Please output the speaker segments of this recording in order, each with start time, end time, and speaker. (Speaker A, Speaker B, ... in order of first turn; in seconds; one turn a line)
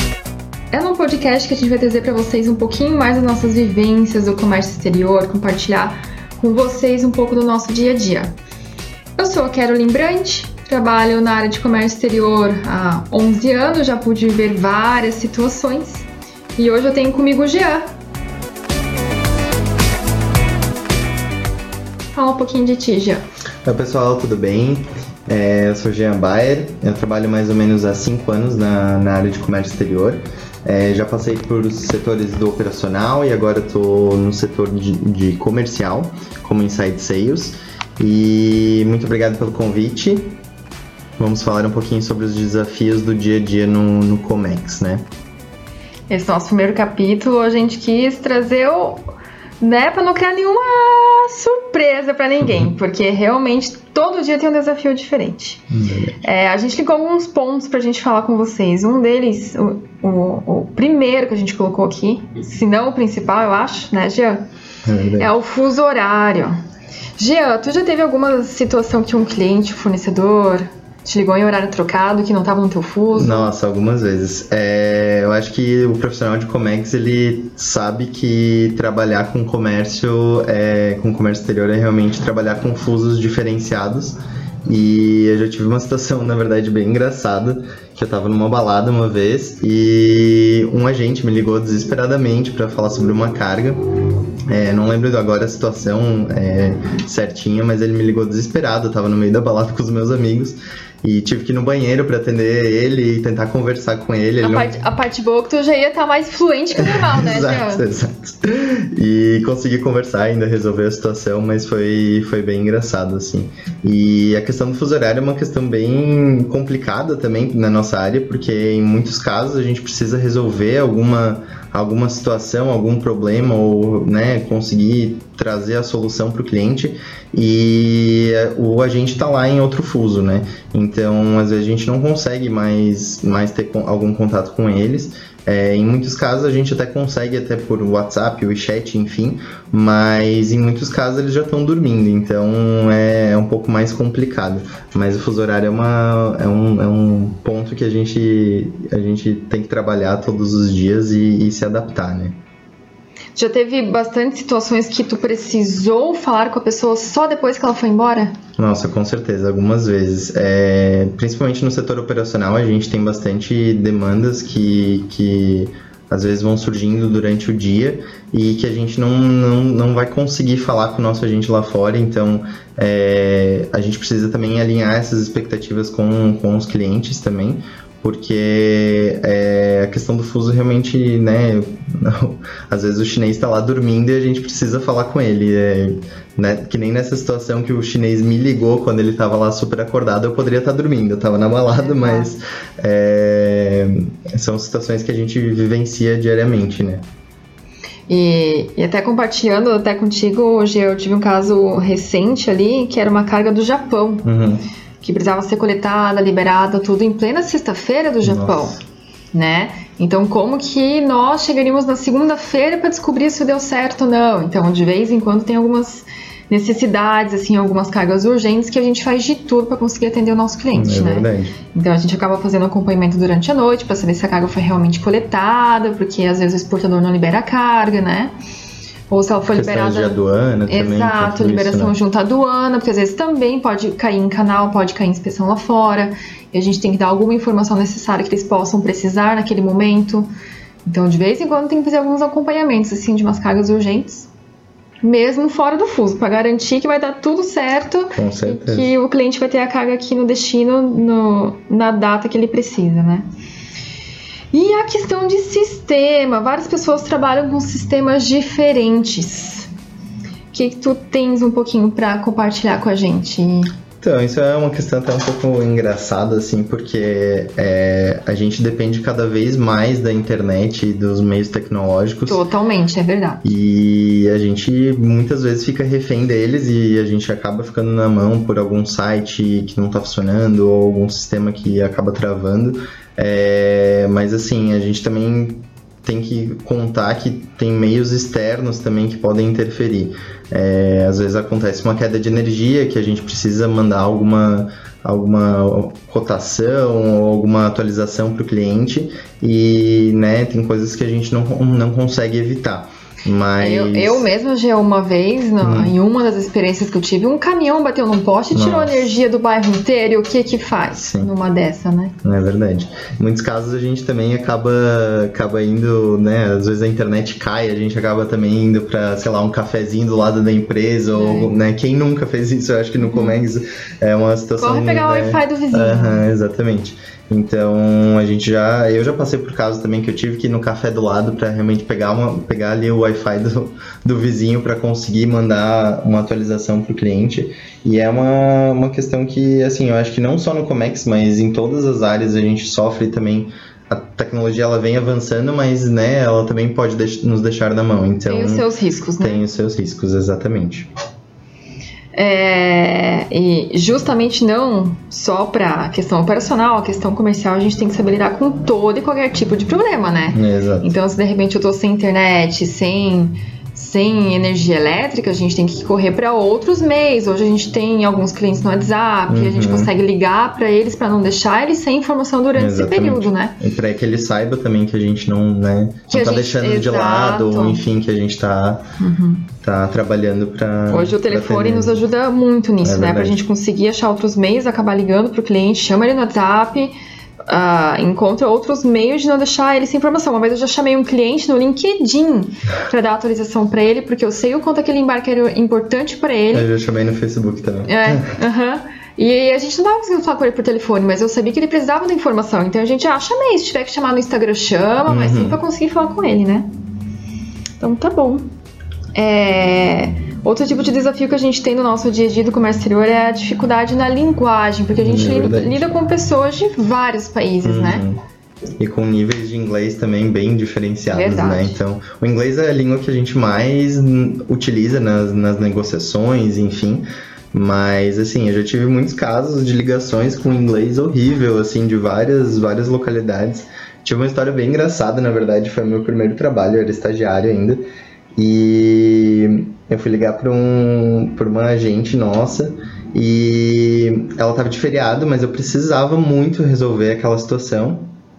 Speaker A: 0.7-8.4
Speaker A: 9.2-17.9
Speaker A: 22.1-23.2
Speaker B: 23.6-40.4
Speaker B: 41.2-45.0
Speaker A: 46.1-49.1
Speaker A: 49.6-55.6
Speaker B: 55.7-56.2
Speaker A: 56.2-64.4
Speaker B: 64.8-65.3
Speaker A: 65.2-66.5
Speaker A: 67.2-73.5
Speaker B: 73.1-93.8
Speaker B: 94.5-104.8
Speaker A: 104.4-107.8
Speaker B: 106.8-152.4
Speaker A: 153.3-158.3
Speaker B: 158.6-197.0
Speaker A: 191.7-192.3
Speaker A: 198.1-204.3
Speaker B: 204.2-204.6
Speaker A: 205.0-208.8
Speaker B: 208.2-208.8
Speaker A: 209.3-228.3
Speaker B: 220.7-221.6
Speaker A: 229.1-240.3
Speaker B: 229.5-231.9
Speaker A: 240.8-244.3
Speaker A: 245.0-253.3
Speaker B: 248.1-248.9
Speaker A: 254.5-259.7
Speaker A: 260.5-263.7
Speaker B: 264.0-272.4
Speaker A: 272.3-273.5
Speaker B: 273.4-304.3
Speaker A: 303.6-312.1
Speaker B: 305.6-305.9
Speaker B: 308.5-309.1
Speaker B: 310.9-311.3
Speaker B: 312.2-348.6
Speaker A: 321.1-321.5
Speaker A: 323.0-323.4
Speaker A: 324.6-326.2
Speaker A: 348.3-349.4
Speaker B: 349.2-350.9
Speaker A: 352.1-373.6
Speaker B: 360.3-360.9
Speaker B: 369.3-369.9
Speaker B: 372.6-378.8
Speaker A: 376.1-377.8
Speaker A: 379.0-379.5
Speaker B: 379.6-382.0
Speaker A: 380.9-386.9
Speaker B: 382.8-383.4
Speaker A: 387.5-396.7
Speaker B: 396.5-398.4
Speaker A: 397.9-406.7
Speaker B: 405.1-405.6
Speaker A: 407.8-408.4
Speaker A: 409.1-418.1
Speaker B: 415.0-415.9
Speaker B: 417.6-418.2
Speaker B: 418.8-437.8
Speaker A: 421.1-421.8
Speaker B: 438.4-448.1